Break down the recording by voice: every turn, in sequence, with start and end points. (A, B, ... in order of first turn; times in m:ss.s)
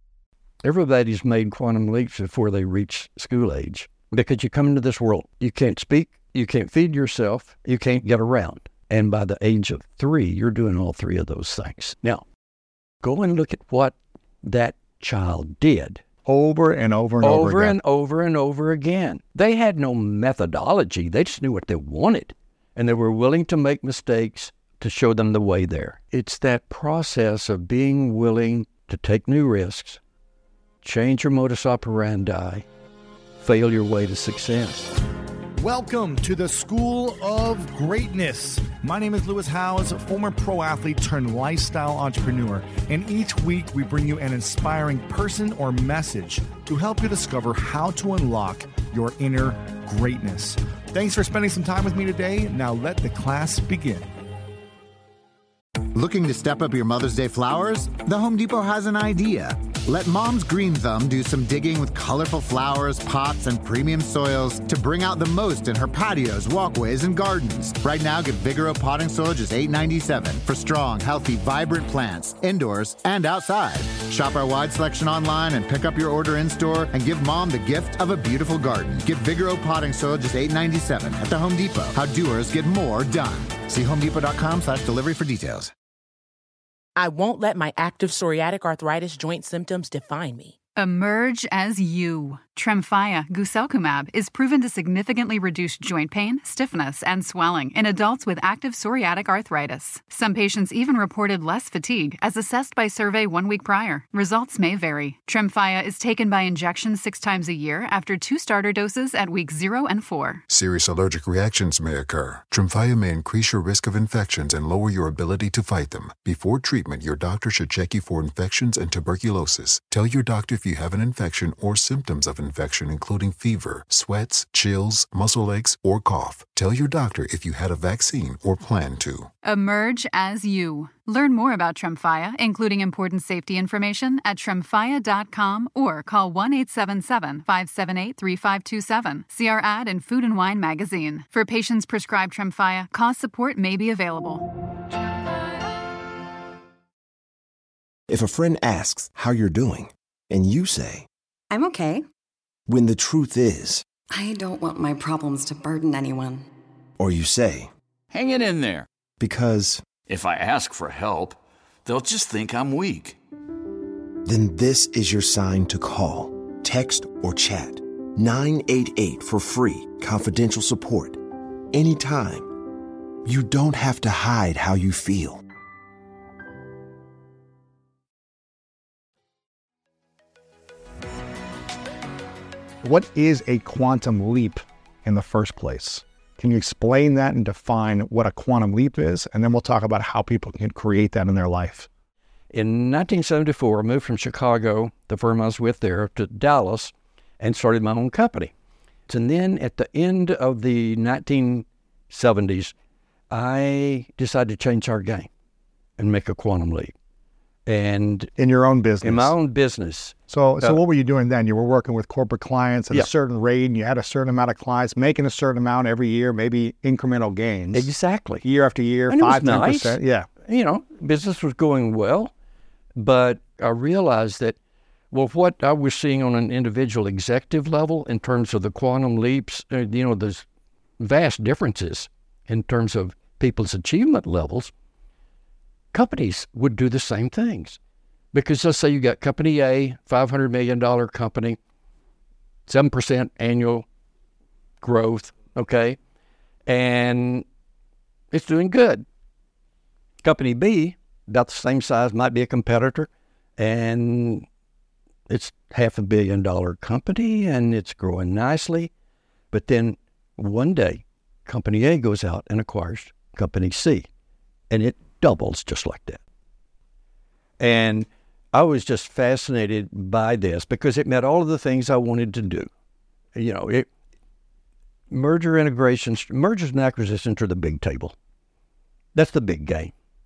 0:00.6-0:12.2 A
0:13.0-0:16.0 A
0:16.2-0:17.8 B
0:17.2-0:30.0 A
0:30.8-0:32.6 A
0:33.4-0:35.0 A
0:35.6-0:54.0 C
0:55.9-1:25.7 D
1:27.0-1:30.6 E
1:30.8-1:50.4 F
1:50.5-2:09.3 G
2:09.4-2:24.5 F
2:28.1-2:31.1 H
2:31.5-2:32.0 I
2:32.7-2:33.8 H
2:34.1-2:36.5 I
2:37.0-2:37.7 H
2:38.1-2:38.9 J
2:39.2-2:39.8 H
2:40.1-2:43.2 J
2:44.2-2:51.2 H
2:51.7-2:52.5 H
2:53.2-2:55.4 H
3:02.8-3:11.9 B
3:12.5-3:18.5 A
3:19.1-3:22.7 A
3:23.3-3:25.3 A
3:26.0-3:26.9 A
3:27.6-3:28.3 A
3:28.4-3:29.3 B
3:29.0-3:30.8 A
3:30.3-3:37.9 B
3:37.7-3:38.4 A
3:38.4-3:40.3 B
3:39.1-3:42.3 A
3:43.0-3:44.6 A
3:45.1-3:50.4 A
3:51.0-3:54.7 A
3:55.9-3:57.8 A
3:58.3-4:01.6 A
4:02.7-4:03.8 A
4:04.8-4:06.0 A
4:06.6-4:07.4 A
4:08.3-4:09.0 A
4:10.2-4:14.4 A
4:15.3-4:18.9 A
4:19.5-4:24.1 A
4:24.7-4:26.2 A
4:27.6-4:32.7 A
4:33.3-4:33.9 A
4:35.1-4:38.1 A
4:39.1-4:39.9 A